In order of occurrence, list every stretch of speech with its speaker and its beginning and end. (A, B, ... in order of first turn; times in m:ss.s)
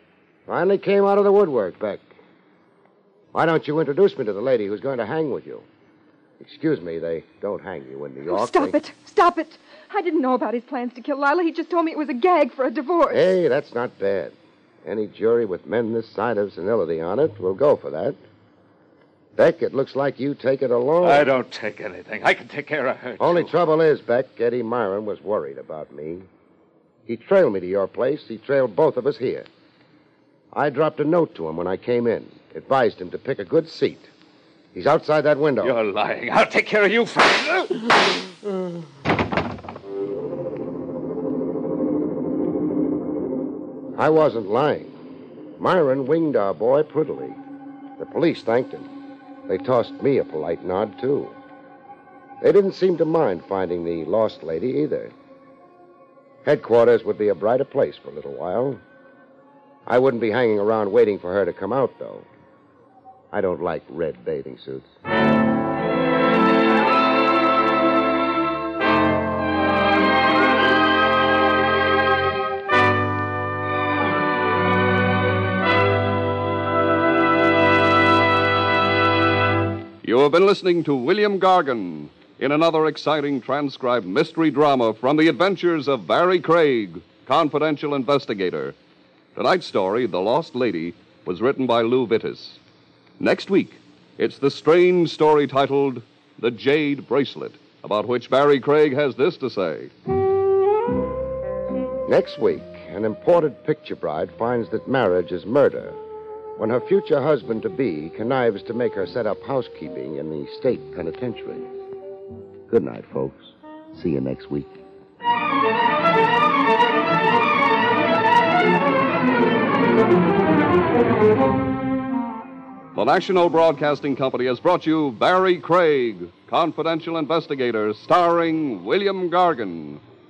0:00.5-0:02.1 A
0:03.3-0:05.6 A
0:06.4-0:08.8 A
0:08.3-0:13.3 B
0:13.1-0:18.2 A
0:19.4-0:21.3 A
0:21.0-0:23.5 C
0:23.2-0:26.3 A
0:27.1-0:29.5 A
0:30.5-0:34.1 A
0:34.7-0:35.8 A
0:35.6-0:38.8 C
0:44.0-0:44.9 A
0:45.6-0:47.4 A
0:48.0-0:48.9 A
0:49.5-0:51.4 A
0:52.4-0:55.1 A
0:56.4-0:58.8 A
0:59.9-1:02.3 A
1:03.3-1:04.9 A
1:20.0-1:28.8 D
1:29.4-1:32.6 D
1:33.2-1:39.9 D
1:42.1-1:46.0 A
1:46.6-1:51.7 A
1:52.7-1:54.8 A
2:03.0-2:10.0 D